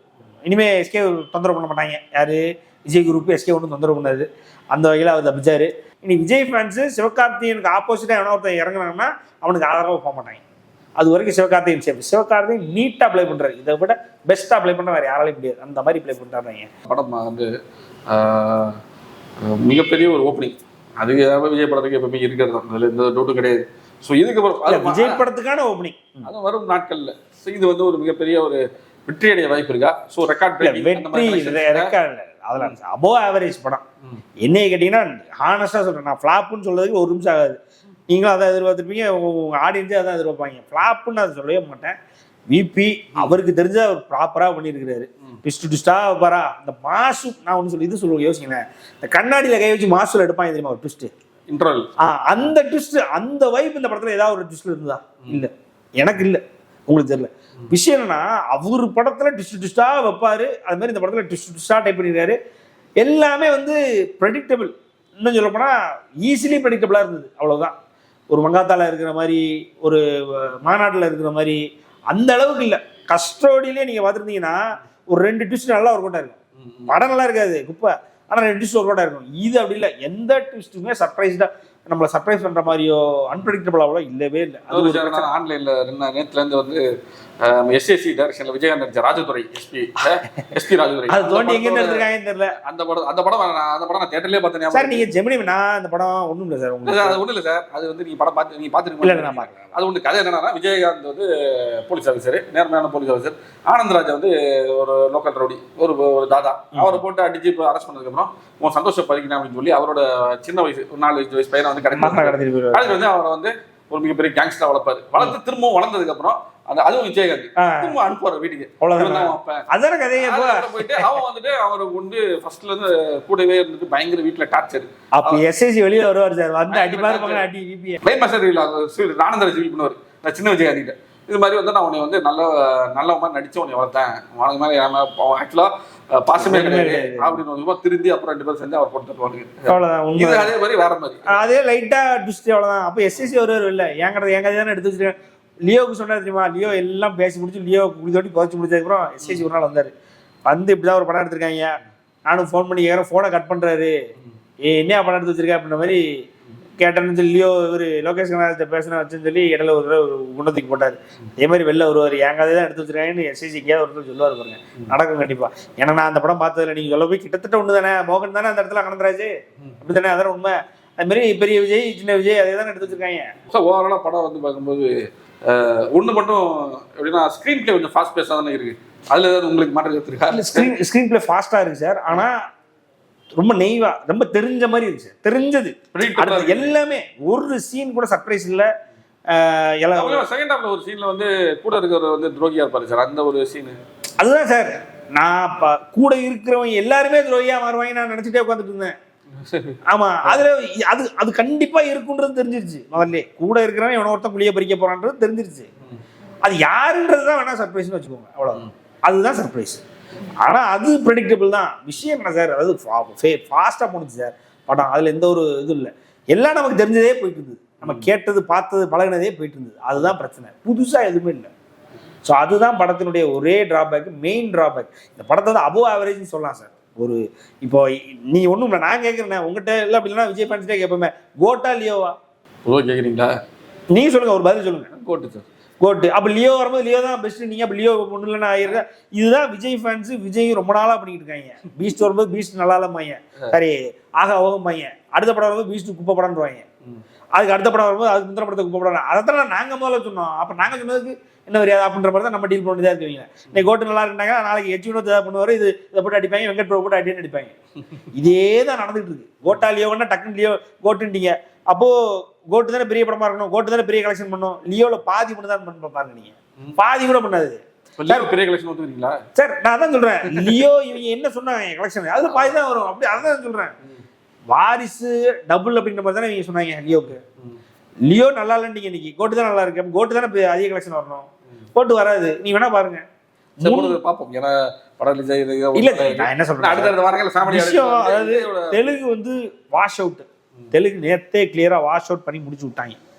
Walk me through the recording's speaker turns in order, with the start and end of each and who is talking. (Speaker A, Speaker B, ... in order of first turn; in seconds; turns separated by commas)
Speaker A: 0.5-10.4, Speaker A: 11.0-16.7, Speaker B: 16.9-17.5, Speaker B: 18.1-18.8, Speaker B: 19.4-25.2, Speaker A: 24.7-26.3, Speaker B: 26.2-31.9, Speaker A: 30.6-33.8, Speaker A: 34.4-37.6, Speaker A: 38.1-42.0, Speaker A: 42.5-51.1, Speaker B: 51.5-51.9, Speaker A: 52.0-62.4, Speaker A: 63.0-67.7, Speaker A: 68.3-71.6, Speaker A: 72.1-76.4, Speaker B: 76.6-77.0, Speaker A: 76.9-85.3, Speaker B: 84.7-86.8, Speaker B: 87.4-92.1, Speaker A: 91.1-92.6, Speaker B: 92.6-95.1, Speaker A: 94.7-97.2, Speaker B: 96.8-119.7, Speaker A: 99.0-99.8, Speaker A: 112.0-113.0, Speaker A: 117.6-118.0, Speaker A: 118.8-121.1, Speaker B: 120.2-125.4, Speaker A: 125.1-128.0, Speaker B: 126.7-127.5, Speaker B: 128.0-141.4, Speaker A: 136.4-137.4, Speaker A: 139.7-140.5, Speaker A: 141.3-149.9, Speaker A: 150.5-153.9, Speaker A: 154.6-156.0, Speaker A: 156.8-173.3, Speaker B: 173.5-180.8, Speaker A: 180.3-182.4, Speaker A: 183.4-188.7, Speaker B: 185.9-186.7, Speaker A: 189.3-190.2, Speaker B: 189.9-193.8, Speaker A: 194.2-198.9, Speaker B: 199.3-200.4, Speaker A: 199.9-205.7, Speaker A: 206.4-209.8, Speaker A: 210.4-221.5, Speaker A: 222.2-232.2, Speaker B: 232.7-233.3, Speaker A: 233.9-234.9, Speaker B: 234.9-235.5, Speaker A: 235.8-246.7, Speaker A: 247.3-257.5, Speaker A: 258.1-268.3, Speaker B: 268.0-269.2, Speaker A: 269.4-273.7, Speaker B: 270.3-270.6, Speaker B: 272.3-272.6, Speaker A: 274.5-277.2, Speaker A: 278.1-283.0, Speaker B: 283.6-289.0, Speaker A: 283.6-284.0, Speaker A: 285.8-286.9, Speaker A: 287.4-293.0